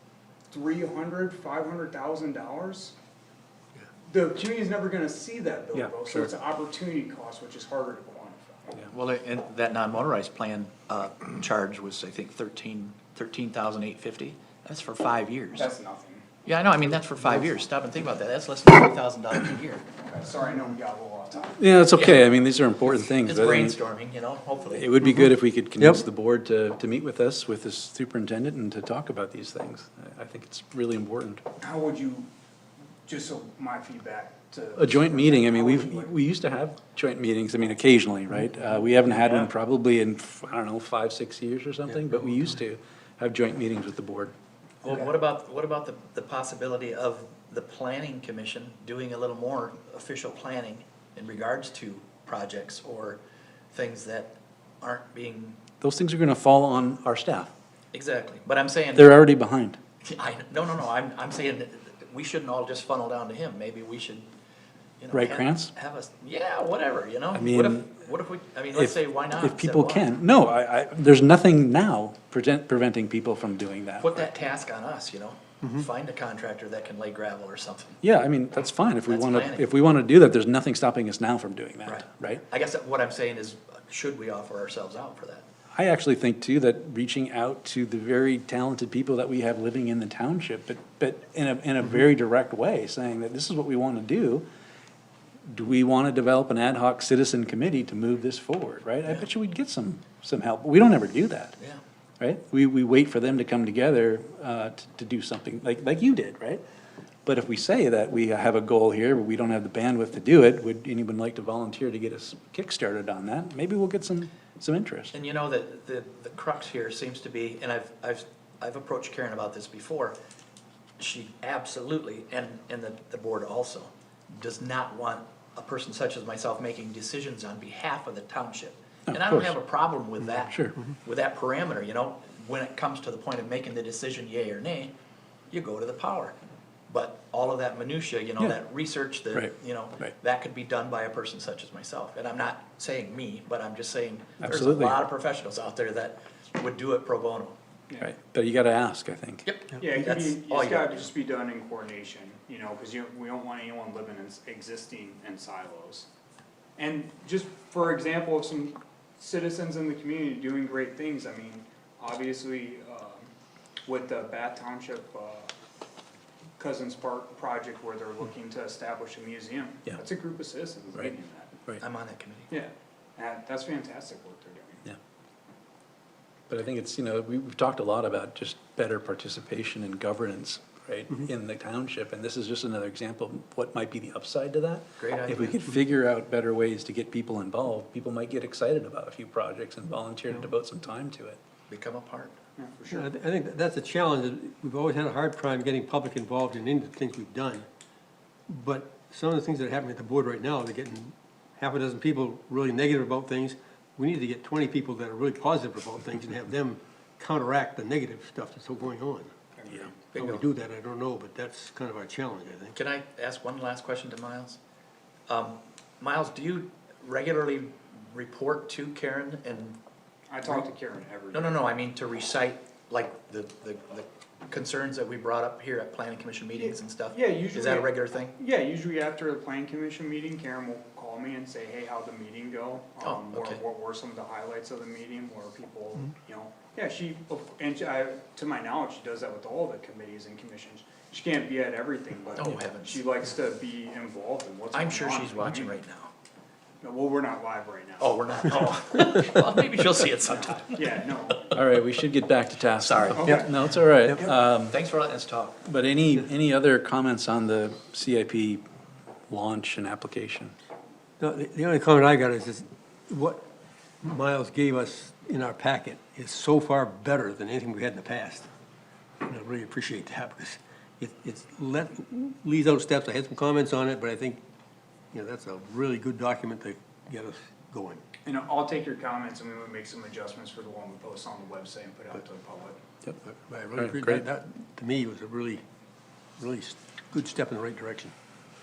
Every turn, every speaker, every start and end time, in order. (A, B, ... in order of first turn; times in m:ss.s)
0:00.5-0:02.9 A
0:04.1-0:08.9 A
0:05.8-0:06.3 B
0:08.9-0:15.7 C
0:15.6-0:16.2 A
0:16.4-0:19.8 C
0:20.0-0:21.6 A
0:21.6-0:23.8 B
0:22.0-0:22.3 C
0:22.8-0:24.9 C
0:24.7-0:31.4 B
0:31.6-0:32.3 A
0:33.1-0:36.1 A
0:34.8-0:44.3 B
0:42.0-0:42.4 D
0:44.8-0:53.2 C
0:53.7-0:55.6 C
0:55.8-0:57.5 B
0:57.9-0:59.2 C
0:59.0-0:59.8 B
1:00.0-1:04.3 C
1:05.0-1:10.2 C
1:05.1-1:05.7 B
1:07.3-1:07.9 B
1:08.7-1:14.3 B
1:14.0-1:18.0 C
1:18.0-1:22.4 B
1:19.1-1:19.7 C
1:21.9-1:25.5 C
1:25.8-1:34.5 B
1:35.5-1:41.6 B
1:42.2-1:46.6 B
1:47.3-1:55.1 B
1:55.1-2:00.2 C
2:01.0-2:14.9 C
2:09.1-2:09.6 B
2:15.5-2:16.4 C
2:16.9-2:27.6 C
2:19.3-2:20.1 B
2:24.4-2:25.0 B
2:28.0-2:29.5 B
2:29.4-2:31.1 C
2:29.8-2:36.1 A
2:36.8-2:43.3 A
2:43.9-2:45.5 A
2:46.6-2:51.5 A
2:51.8-2:52.5 C
2:52.5-2:54.8 A
2:56.5-3:11.4 B
3:05.0-3:05.6 C
3:11.7-3:12.4 C
3:12.6-3:13.1 A
3:12.9-3:17.6 D
3:18.5-3:29.3 D
3:29.6-3:30.0 A
3:30.1-3:30.4 C
3:30.2-3:32.8 D
3:32.8-3:34.6 C
3:35.3-3:39.8 C
3:40.3-3:41.6 A
3:41.3-3:48.4 C
3:46.6-4:05.7 A
3:53.0-3:53.6 C
4:02.4-4:03.0 C
4:04.7-4:06.1 C
4:06.8-4:08.7 A
4:08.0-4:10.9 C
4:10.3-4:11.6 A
4:11.5-4:14.8 B
4:12.8-4:13.3 C
4:13.2-4:13.5 A
4:14.2-4:15.7 C
4:15.6-4:18.6 B
4:19.3-4:20.5 B
4:21.2-4:23.4 D
4:24.0-4:28.5 D
4:29.2-4:34.4 D
4:35.1-4:38.0 D
4:38.2-4:42.8 A
4:43.2-4:45.6 D
4:43.8-4:44.3 B
4:46.4-4:48.1 D